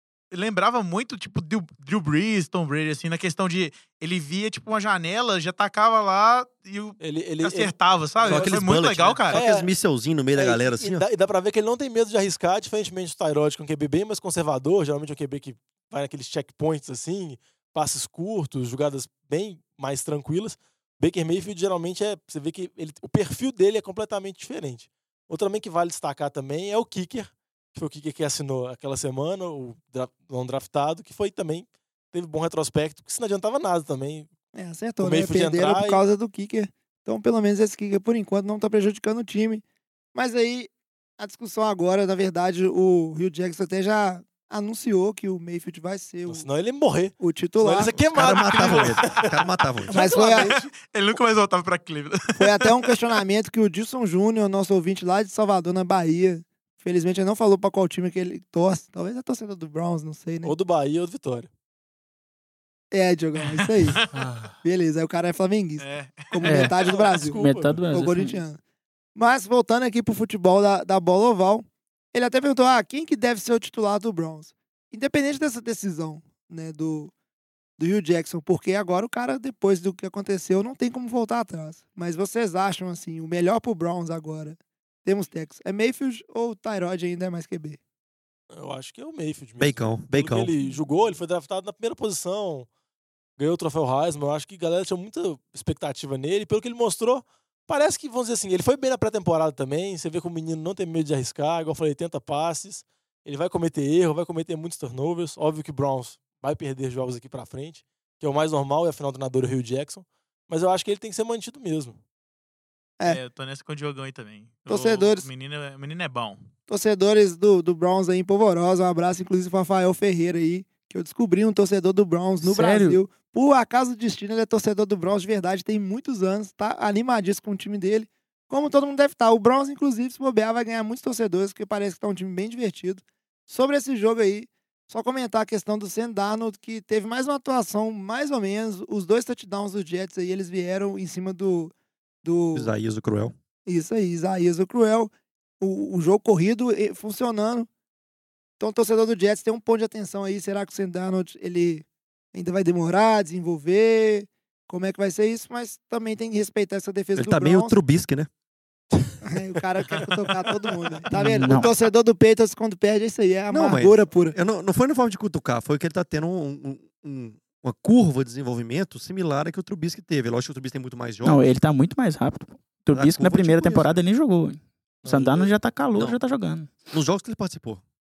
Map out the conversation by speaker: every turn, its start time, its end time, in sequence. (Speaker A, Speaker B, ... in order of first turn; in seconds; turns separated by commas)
Speaker A: 0.3-9.4, Speaker B: 7.0-8.6, Speaker C: 8.2-11.0, Speaker B: 9.3-9.7, Speaker B: 10.3-34.3, Speaker D: 34.5-39.6, Speaker B: 35.0-36.0, Speaker D: 40.1-46.5, Speaker B: 46.3-49.3, Speaker D: 47.2-48.0, Speaker C: 48.1-49.9, Speaker A: 48.2-49.3, Speaker B: 49.9-50.7, Speaker A: 49.9-52.9, Speaker D: 49.9-50.5, Speaker D: 52.4-60.5, Speaker B: 60.4-61.5, Speaker D: 62.9-64.0, Speaker A: 63.4-64.2, Speaker E: 64.1-64.5, Speaker D: 64.6-68.6, Speaker A: 65.8-66.5, Speaker E: 66.4-68.4, Speaker B: 66.8-67.9, Speaker D: 69.1-77.1, Speaker D: 77.8-87.8, Speaker B: 88.5-92.7, Speaker C: 89.6-90.5, Speaker B: 93.4-112.0, Speaker A: 113.0-116.5, Speaker D: 114.7-115.3, Speaker D: 116.7-141.7, Speaker E: 122.4-123.0, Speaker D: 142.2-142.7, Speaker C: 142.5-143.3, Speaker D: 143.7-147.7, Speaker D: 148.6-157.8, Speaker C: 157.2-158.3, Speaker D: 159.2-164.4, Speaker E: 161.1-161.7, Speaker C: 163.5-171.5, Speaker E: 171.2-176.7, Speaker C: 172.9-174.0, Speaker B: 175.1-175.6, Speaker C: 176.9-177.8